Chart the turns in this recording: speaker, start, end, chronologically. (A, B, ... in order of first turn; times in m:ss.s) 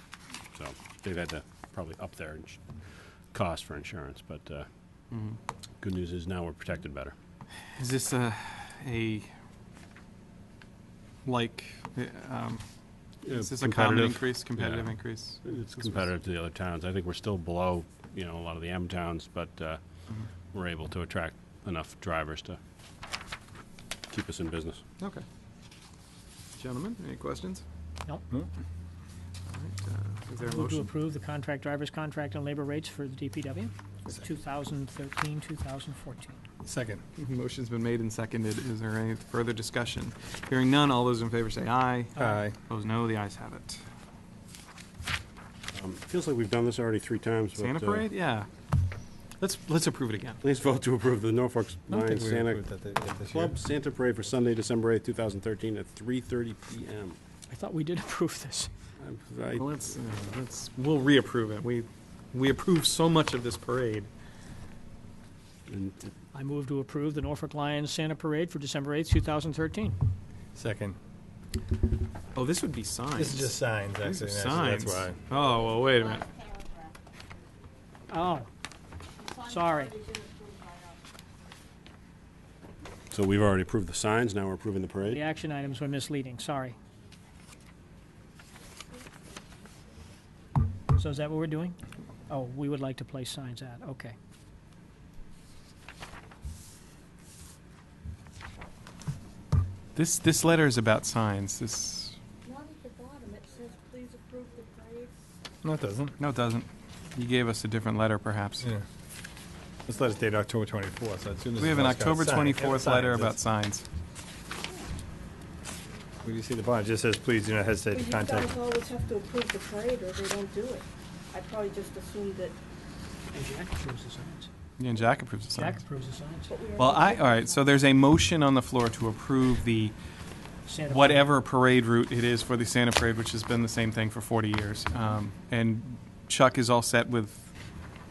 0:00.5-0:04.7 A
0:05.1-0:05.4 B
0:05.8-0:07.1 A
0:07.7-0:09.3 B
0:11.2-0:12.6 B
0:13.2-0:19.8 A
0:13.2-0:16.0 B
0:20.5-0:22.6 A
0:24.1-0:24.8 A
0:25.0-0:25.2 B
0:26.6-0:27.6 B
0:29.5-0:30.9 B
0:30.4-0:36.4 C
0:36.6-0:37.0 D
0:37.2-0:42.1 B
0:42.1-0:42.4 C
0:42.2-0:42.6 D
0:42.7-0:43.8 B
0:45.7-0:48.0 A
0:47.6-0:48.5 B
0:49.4-0:50.4 B
0:50.4-0:57.2 A
0:52.0-0:53.5 D
0:57.5-0:58.7 C
0:59.0-0:59.8 A
0:59.6-1:04.1 B
1:05.7-1:06.1 A
1:06.3-1:10.0 C
1:10.5-1:11.0 D
1:12.3-1:16.4 B
1:13.1-1:15.2 D
1:18.1-1:18.5 C
1:19.4-1:20.0 C
1:19.9-1:20.8 E
1:23.1-1:25.2 A
1:25.0-1:26.8 C
1:30.9-1:31.8 C
1:32.3-1:34.2 C
1:39.9-1:42.2 B
1:42.4-1:45.1 E
1:45.6-1:46.2 D
1:46.2-1:48.7 B
1:49.8-1:53.4 D
1:51.6-1:53.8 B
1:56.2-1:58.6 D
1:57.9-2:02.6 E
2:03.3-2:04.5 C
2:04.8-2:05.8 B
2:05.5-2:06.5 C
2:06.5-2:07.7 E
2:06.7-2:10.0 B
2:10.6-2:11.4 C
2:10.8-2:17.5 B